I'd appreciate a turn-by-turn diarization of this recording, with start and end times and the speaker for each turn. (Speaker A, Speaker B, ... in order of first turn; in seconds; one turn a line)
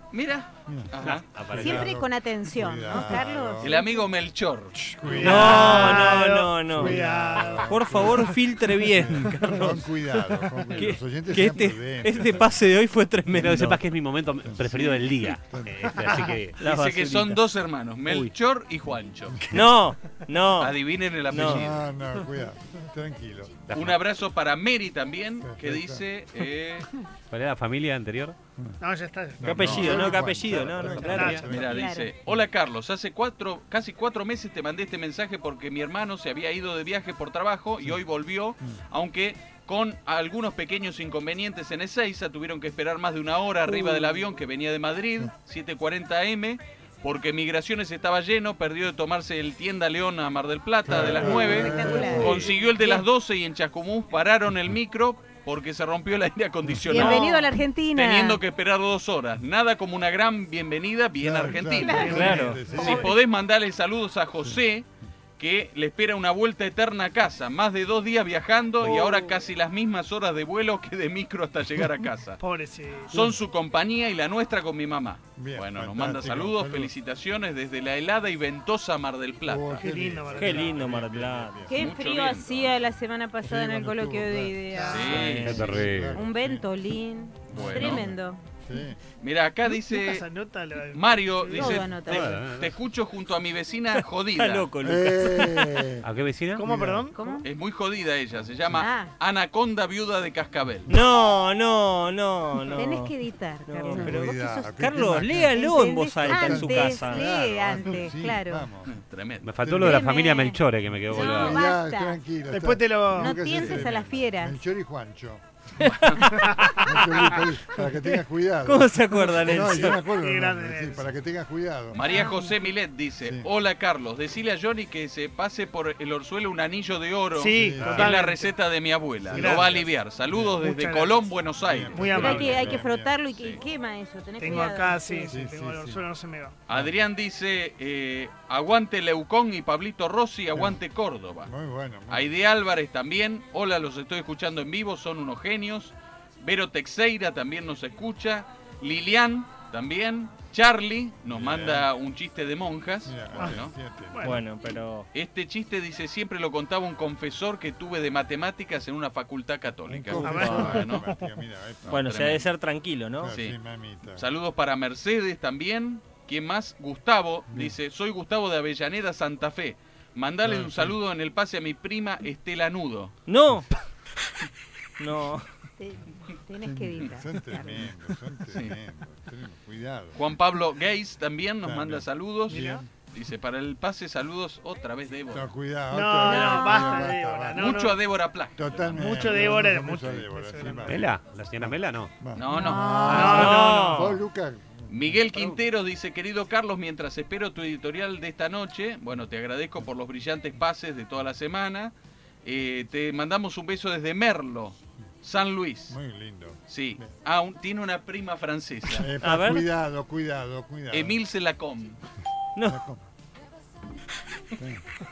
Speaker A: 0.1-1.3
Speaker B: 0.7-0.9
Speaker C: 1.0-1.9
Speaker B: 1.5-3.8
Speaker D: 1.5-3.9
Speaker A: 3.6-5.6
Speaker B: 4.9-12.5
Speaker E: 5.1-8.3
Speaker F: 5.2-7.0
Speaker F: 7.6-13.8
Speaker C: 13.3-16.6
Speaker B: 14.4-16.3
Speaker F: 16.6-17.4
Speaker A: 16.6-19.6
Speaker F: 19.5-20.8
Speaker A: 20.6-21.9
Speaker F: 21.3-21.6
Speaker B: 21.3-23.7
Speaker C: 23.7-24.0
Speaker A: 23.7-26.9
Speaker B: 25.4-26.0
Speaker C: 27.3-28.4
Speaker E: 28.8-31.6
Speaker B: 29.4-32.4
Speaker F: 29.4-31.4
Speaker A: 31.2-64.8
Speaker D: 31.5-32.1
Speaker F: 43.8-44.1
Speaker B: 50.9-52.5
Speaker D: 51.1-53.0
Speaker D: 56.9-58.4
Speaker E: 56.9-57.3
Speaker B: 61.2-63.1
Speaker D: 61.6-63.0
Speaker E: 62.0-63.1
Speaker F: 62.0-62.6
Speaker A: 65.4-72.4
Speaker E: 72.4-73.1
Speaker A: 73.1-79.8
Speaker B: 75.3-76.9
Speaker B: 79.4-81.7
Speaker E: 79.8-80.8
Speaker F: 80.3-81.5
Speaker D: 81.7-88.4
Speaker A: 81.7-82.7
Speaker B: 83.4-86.7
Speaker E: 84.7-85.7
Speaker A: 84.8-85.6
Speaker C: 85.4-86.2
Speaker B: 87.5-89.0
Speaker A: 87.5-88.1
Speaker A: 89.2-90.2
Speaker E: 89.6-91.9
Speaker A: 90.9-94.7
Speaker D: 91.5-92.4
Speaker C: 92.0-92.7
Speaker F: 94.3-95.9
Speaker B: 94.8-96.0
Speaker C: 96.0-96.6
Speaker B: 96.5-97.1
Speaker E: 96.5-97.2
Speaker D: 97.1-97.5
Speaker A: 97.4-100.9
Speaker D: 98.8-99.1
Speaker F: 100.9-103.1
Speaker D: 102.7-104.7
Speaker F: 103.6-107.2
Speaker B: 103.9-105.7
Speaker D: 105.5-108.7
Speaker B: 106.2-108.9
Speaker A: 108.8-109.5
Speaker C: 109.4-111.6
Speaker B: 109.6-110.1
Speaker D: 109.8-112.2
Speaker B: 110.9-116.0
Speaker E: 112.5-113.5
Speaker D: 113.2-114.6
Speaker F: 115.8-116.8
Speaker E: 116.4-116.8
Speaker B: 116.7-122.0
Speaker F: 118.6-120.0
Speaker E: 119.6-121.0
Speaker A: 121.9-132.8
Speaker D: 122.1-122.5
Speaker E: 127.3-128.5
Speaker B: 127.5-128.1
Speaker B: 129.2-130.6
Speaker E: 129.3-129.7
Speaker E: 130.6-131.1
Speaker B: 131.6-133.1
Speaker E: 131.9-132.8
Speaker D: 132.0-135.3
Speaker A: 133.3-133.6
Speaker E: 134.4-136.5
Speaker B: 135.3-136.0
Speaker A: 136.7-141.5
Speaker B: 141.4-142.3
Speaker A: 142.1-153.7
Speaker B: 151.2-151.9
Speaker B: 153.0-154.4
Speaker E: 154.1-154.4
Speaker F: 154.2-155.1
Speaker A: 155.1-161.1
Speaker B: 159.8-162.2
Speaker F: 160.2-160.7
Speaker E: 160.2-161.2
Speaker A: 161.8-162.5
Speaker F: 161.9-163.3
Speaker B: 163.2-164.2
Speaker A: 163.3-163.6
Speaker A: 164.1-173.2
Speaker B: 167.5-167.8
Speaker B: 170.4-171.0
Speaker F: 173.3-173.7
Speaker F: 175.0-175.4
Speaker D: 175.8-177.9
Speaker B: 176.6-180.2
Speaker A: 180.2-185.5
Speaker B: 181.6-182.8
Speaker E: 182.5-182.8
Speaker B: 185.3-187.9
Speaker E: 185.9-188.0
Speaker D: 186.2-187.1
Speaker A: 187.5-189.2
Speaker B: 188.6-195.6
Speaker E: 188.9-191.1
Speaker C: 190.9-192.1
Speaker A: 192.3-192.8
Speaker D: 192.4-193.6
Speaker E: 193.1-194.2
Speaker F: 193.1-194.1
Speaker A: 194.9-201.9
Speaker A: 202.4-206.0
Speaker B: 205.9-207.1
Speaker A: 206.7-209.1
Speaker B: 208.9-211.2
Speaker F: 209.2-209.7
Speaker A: 210.9-212.0
Speaker F: 212.6-212.8
Speaker B: 212.6-213.1
Speaker B: 214.6-214.8